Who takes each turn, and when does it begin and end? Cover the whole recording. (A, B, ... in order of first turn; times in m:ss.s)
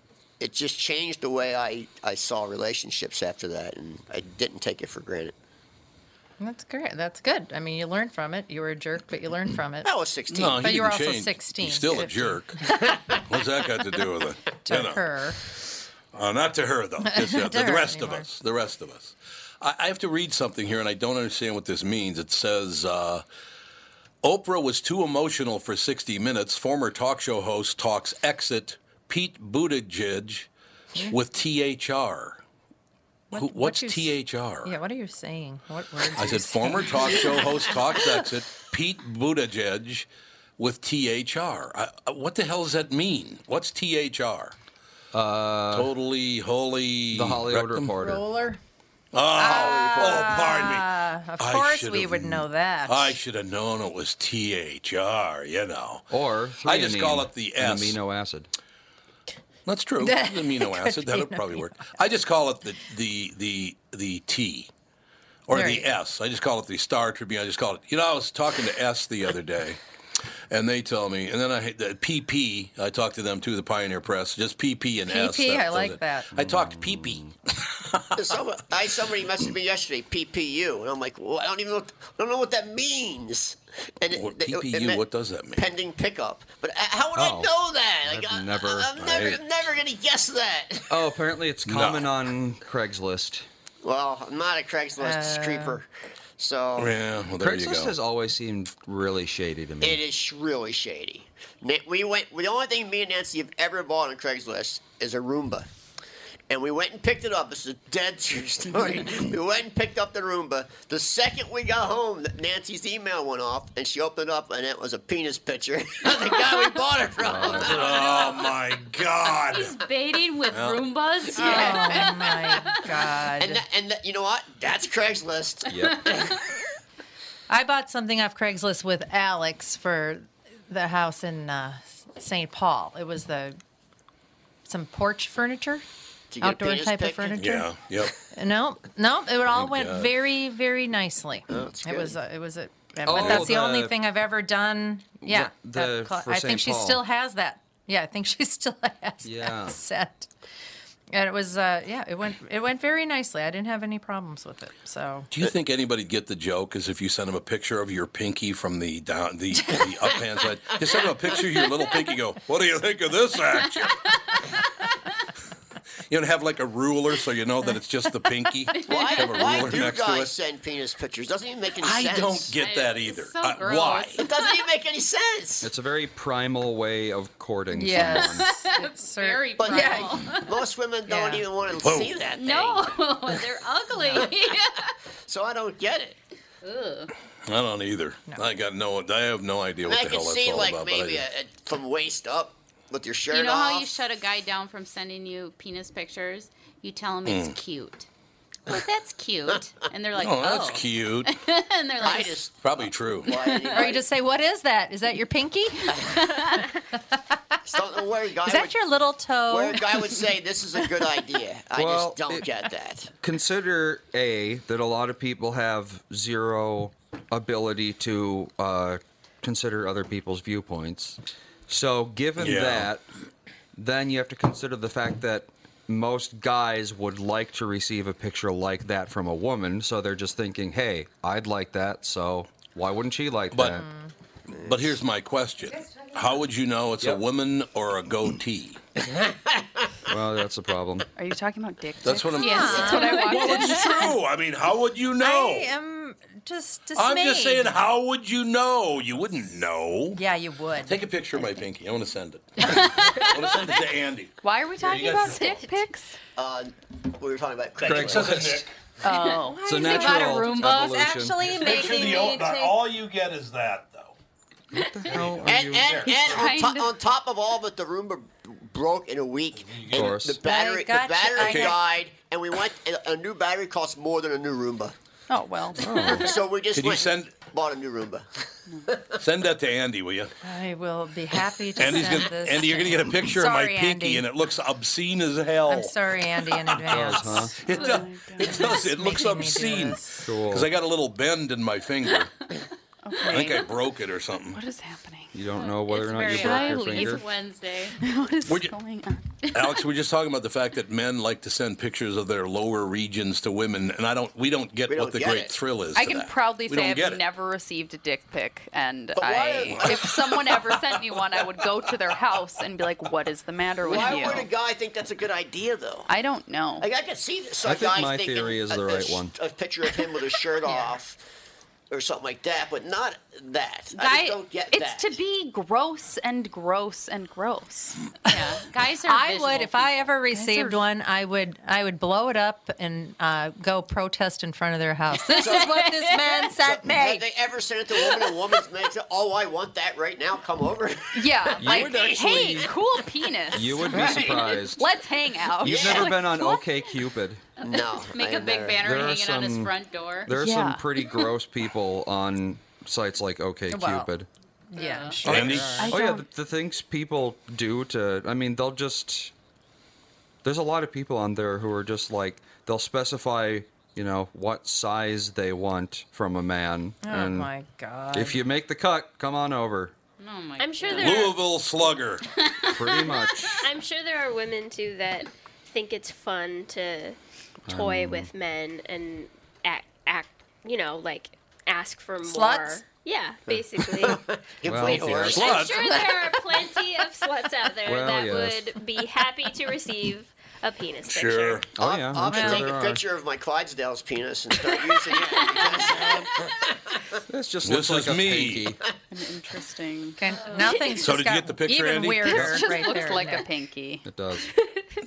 0:00.4-0:05.3 A
0:06.4-0:09.9 B
0:09.8-0:10.7 A
0:10.3-0:12.6 C
0:10.5-0:12.5 B
0:12.8-0:13.2 A
0:13.2-0:15.1 C
0:14.6-0:15.4 B
0:16.1-0:23.2 C
0:17.0-0:18.3 B
0:24.2-0:30.5 C
0:31.1-0:32.4 C
0:33.3-0:37.7 B
0:33.3-0:34.7 C
0:36.1-0:40.1 C
0:40.6-0:44.5 C
0:45.1-0:45.9 D
0:45.7-0:47.9 C
0:47.1-0:48.2 D
0:47.9-0:48.6 B
0:49.1-0:56.0 C
0:49.4-0:53.2 B
0:49.4-0:50.4 A
0:56.1-0:58.5 D
0:56.6-0:58.0 C
0:59.6-1:04.7 C
1:00.0-1:02.0 B
1:05.5-1:09.8 C
1:05.5-1:05.9 B
1:10.5-1:18.4 C
1:15.1-1:16.3 B
1:16.3-1:17.3 D
1:18.2-1:25.0 A
1:24.1-1:25.7 C
1:25.6-1:31.0 A
1:27.1-1:28.9 D
1:29.0-1:29.4 C
1:30.9-1:33.5 D
1:31.6-1:32.1 C
1:33.8-1:35.8 A
1:35.0-1:35.8 B
1:36.4-1:37.0 A
1:36.8-1:37.9 C
1:37.4-1:40.0 D
1:39.8-1:45.7 A
1:46.5-1:58.1 A
1:57.2-1:57.8 D
1:57.6-1:59.8 C
1:59.4-2:02.8 E
2:00.5-2:00.8 C
2:01.4-2:03.6 B
2:01.4-2:02.1 A
2:03.4-2:06.4 A
2:05.7-2:06.2 D
2:07.5-2:13.6 B
2:14.6-2:15.8 B
2:16.3-2:17.5 A
2:16.4-2:17.7 B
2:17.4-2:18.2 C
2:18.3-2:30.3 B
2:19.5-2:20.1 C
2:21.5-2:22.1 A
2:23.0-2:23.9 D
2:23.1-2:23.5 C
2:25.2-2:27.0 D
2:29.2-2:29.8 D
2:31.1-2:35.3 B
2:35.3-2:44.1 C
2:46.1-2:50.3 C
2:48.8-2:52.6 A
2:48.9-2:49.7 E
2:51.8-2:54.2 C
2:52.6-2:54.6 E
2:54.2-2:55.7 A
2:55.6-2:58.5 D
2:57.7-3:00.3 B
2:58.1-3:00.5 E
2:59.6-3:03.0 A
3:01.1-3:01.4 B
3:01.8-3:02.2 C
3:02.4-3:04.9 E
3:04.1-3:04.6 A
3:05.3-3:06.2 A
3:06.6-3:07.1 E
3:07.4-3:11.2 C
3:09.8-3:13.9 A
3:13.3-3:18.1 E
3:17.2-3:17.6 C
3:18.7-3:22.4 E
3:20.2-3:21.3 C
3:22.0-3:24.0 A
3:22.6-3:23.3 C
3:23.3-3:23.9 E
3:23.7-3:27.2 B
3:26.1-3:26.6 E
3:27.7-3:28.9 A
3:28.4-3:29.9 B
3:29.5-3:33.1 A
3:31.7-3:32.5 D
3:33.2-3:43.0 D
3:42.4-3:42.9 C
3:43.7-3:53.8 D
3:53.5-3:53.8 C
3:53.7-3:54.1 B
3:54.5-3:58.8 C
3:59.1-4:00.0 A
4:00.1-4:01.1 D
4:01.2-4:04.2 F
4:02.0-4:05.7 C
4:02.4-4:03.8 B
4:05.2-4:07.8 B
4:07.0-4:10.2 C
4:10.1-4:11.0 B
4:10.8-4:15.7 C
4:14.4-4:16.2 F
4:16.4-4:18.6 A
4:17.8-4:18.7 C
4:17.8-4:18.4 D
4:19.0-4:20.8 F
4:19.2-4:22.8 B
4:19.6-4:21.6 D
4:21.4-4:24.1 C
4:24.7-4:26.0 D
4:25.1-4:26.6 C
4:25.4-4:34.9 A
4:26.1-4:26.8 F
4:26.4-4:26.7 E
4:29.6-4:30.2 C
4:29.9-4:30.4 D
4:30.4-4:31.8 B
4:31.4-4:31.8 C
4:35.3-4:36.4 F
4:35.8-4:36.4 D
4:36.1-4:38.3 A
4:36.7-4:37.4 C
4:38.9-4:39.2 A
4:39.2-4:40.3 C
4:40.4-4:44.2 B
4:41.8-4:52.3 C
4:45.7-4:47.7 B
4:46.9-4:47.6 D
4:47.6-4:48.9 F
4:48.4-4:50.2 B
4:50.2-4:50.7 D
4:53.0-4:53.8 F
4:53.2-4:54.6 C
4:54.5-4:55.3 F
4:55.3-4:57.2 D
4:55.6-4:58.0 E
4:56.3-4:57.2 F
4:58.0-4:59.7 F
4:58.4-4:58.8 C
4:59.5-5:07.2 C
5:04.9-5:05.6 A
5:05.9-5:14.5 F
5:09.2-5:10.1 A
5:09.7-5:11.7 C
5:13.8-5:16.1 A
5:16.1-5:16.9 F
5:16.8-5:21.2 A
5:17.6-5:19.3 D
5:21.9-5:25.2 A
5:23.9-5:28.0 F
5:28.2-5:30.1 E
5:29.1-5:37.2 B
5:30.3-5:30.8 F
5:35.4-5:35.8 A
5:35.5-5:35.9 E
5:36.6-5:42.0 A
5:41.1-5:46.6 F
5:41.6-5:42.7 D
5:43.5-5:45.0 D
5:43.9-5:44.5 A
5:45.6-5:47.4 D
5:45.6-5:46.2 A
5:47.6-5:50.3 E
5:47.6-5:48.8 A
5:48.8-5:49.7 D
5:50.2-5:54.3 D
5:50.3-5:51.0 F
5:53.7-5:54.1 B
5:54.7-5:55.9 B
5:54.8-5:55.2 E
5:55.2-5:55.9 C
5:55.3-5:59.3 D
5:55.6-5:56.2 F
6:00.4-6:07.5 D
6:07.0-6:08.4 B
6:08.1-6:10.0 D
6:10.2-6:11.3 E
6:10.6-6:11.4 G
6:10.9-6:12.2 C
6:12.4-6:13.4 E
6:12.6-6:13.6 D
6:13.6-6:17.2 G
6:17.7-6:18.3 D
6:17.7-6:24.2 G
6:22.2-6:22.8 B
6:23.5-6:25.7 A
6:24.6-6:25.6 D
6:24.8-6:26.1 C
6:25.3-6:31.7 G
6:27.8-6:28.7 D
6:31.0-6:31.7 C
6:31.7-6:33.0 D
6:31.8-6:37.2 A
6:32.3-6:32.6 B
6:37.3-6:38.8 D
6:37.6-6:38.8 C
6:39.1-6:40.8 F
6:40.2-6:43.5 B
6:41.0-6:42.7 C
6:42.2-6:44.0 F
6:44.0-6:44.5 D